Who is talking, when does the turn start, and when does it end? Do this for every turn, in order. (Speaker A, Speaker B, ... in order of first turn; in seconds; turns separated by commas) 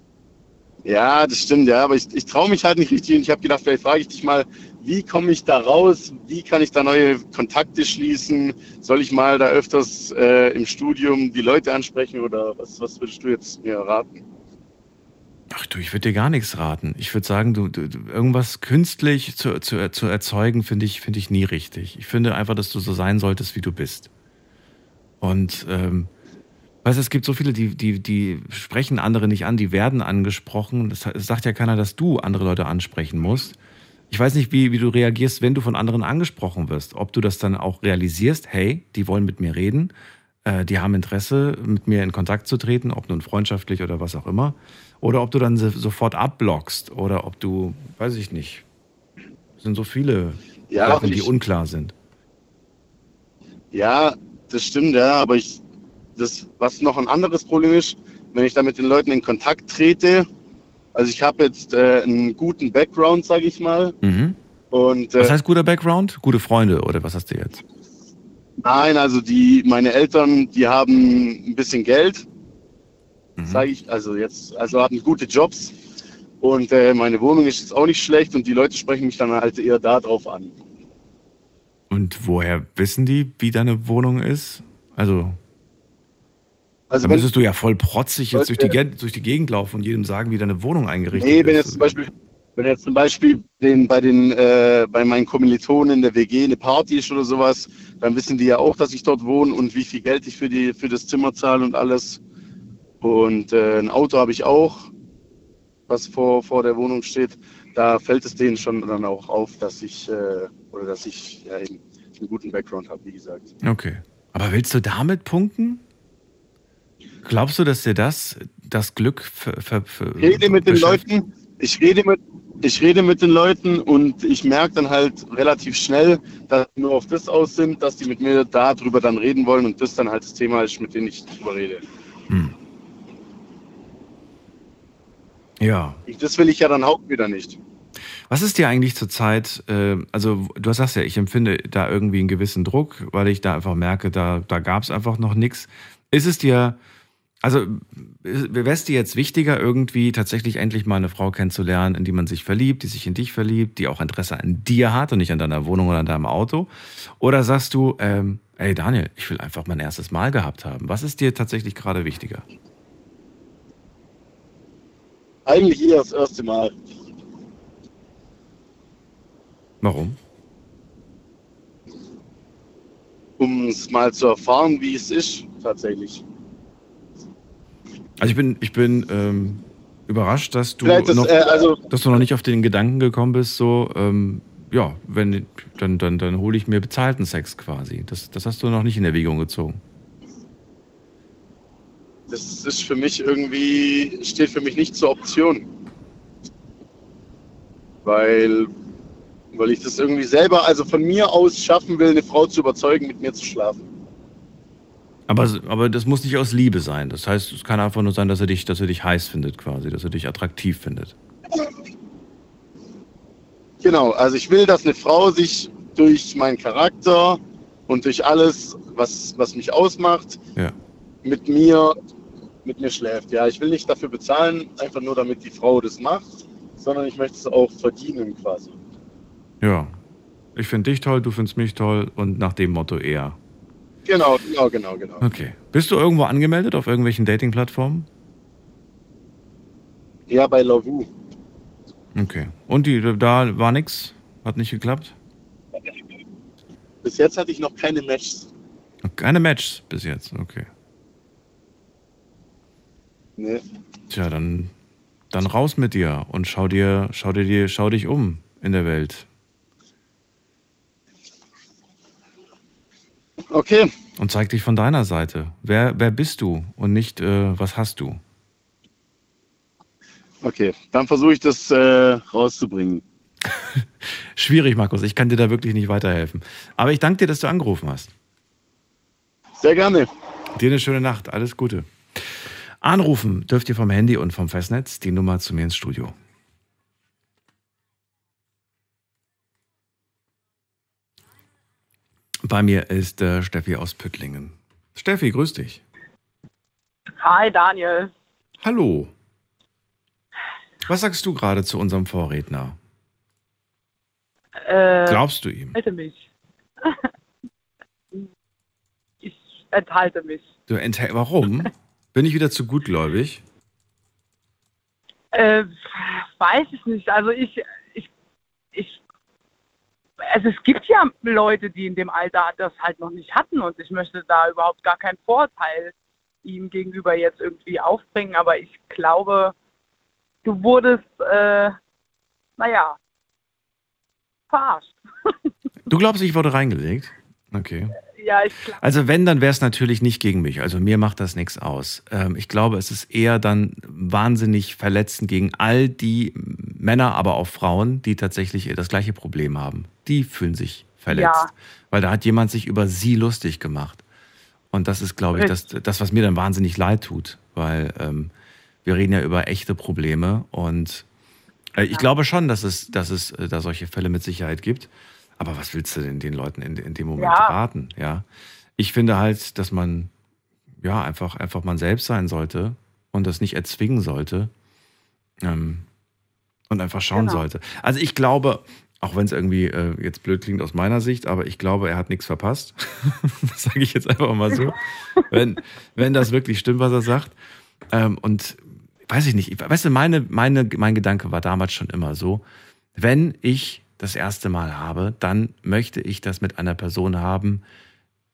Speaker A: 0.8-14.2, Speaker B: 15.5-24.1, Speaker B: 25.2-26.1, Speaker B: 26.8-33.6, Speaker B: 34.1-39.9, Speaker B: 40.4-48.6, Speaker B: 49.6-51.9, Speaker A: 50.7-51.3, Speaker A: 53.7-55.6, Speaker A: 56.1-60.3, Speaker A: 60.9-64.0, Speaker B: 64.0-64.4, Speaker A: 64.7-65.3, Speaker B: 65.2-67.6, Speaker A: 68.6-72.2, Speaker B: 73.4-73.7, Speaker A: 73.5-75.7, Speaker A: 76.4-80.5, Speaker B: 81.9-85.4, Speaker A: 86.9-87.3, Speaker B: 87.0-92.0, Speaker A: 88.3-88.7, Speaker A: 91.1-102.2, Speaker A: 103.0-104.9, Speaker A: 105.9-113.5, Speaker B: 113.6-115.8, Speaker B: 117.2-121.0, Speaker A: 120.2-131.8, Speaker B: 132.3-132.5, Speaker B: 135.6-136.0, Speaker A: 136.1-137.6, Speaker B: 138.3-146.8, Speaker B: 147.4-162.4, Speaker A: 165.4-166.8, Speaker B: 169.8-170.2, Speaker A: 173.4-176.2, Speaker B: 178.2-189.8, Speaker A: 180.8-181.8, Speaker A: 192.3-195.7, Speaker A: 198.0-198.7, Speaker A: 199.5-203.9, Speaker B: 205.3-211.1, Speaker A: 213.8-220.4, Speaker A: 221.2-221.9, Speaker A: 222.6-228.8, Speaker B: 229.6-229.9, Speaker B: 230.6-233.4, Speaker A: 234.1-235.2, Speaker B: 235.2-238.1, Speaker A: 240.3-241.1, Speaker B: 242.1-245.1, Speaker A: 247.0-248.5, Speaker B: 249.0-250.7, Speaker A: 253.4-253.6, Speaker B: 254.1-254.7, Speaker B: 255.3-259.2, Speaker A: 263.5-263.9, Speaker B: 264.2-268.2, Speaker A: 270.4-273.0, Speaker B: 274.4-278.1, Speaker A: 279.6-280.1, Speaker B: 280.5-282.2, Speaker B: 282.8-286.1, Speaker B: 292.4-295.8, Speaker C: 297.1-298.1, Speaker B: 298.6-299.1, Speaker B: 300.9-302.8, Speaker C: 304.6-306.3, Speaker B: 305.1-305.8, Speaker C: 306.8-307.1, Speaker C: 309.2-310.5, Speaker B: 310.7-313.4, Speaker C: 315.3-318.1, Speaker C: 318.7-319.0, Speaker C: 320.2-329.5, Speaker C: 330.4-331.8, Speaker C: 332.6-333.0, Speaker C: 334.5-335.3, Speaker B: 335.9-338.0, Speaker C: 338.1-338.8, Speaker B: 338.8-354.0, Speaker C: 351.1-351.5, Speaker B: 354.7-358.3, Speaker C: 355.3-355.6, Speaker B: 358.8-361.0, Speaker B: 361.7-368.2, Speaker C: 367.2-367.5, Speaker B: 368.8-370.1, Speaker B: 370.8-374.5, Speaker B: 375.4-375.8, Speaker B: 376.7-387.3, Speaker C: 377.1-377.4, Speaker C: 384.5-385.3, Speaker B: 387.9-392.4, Speaker B: 393.0-397.6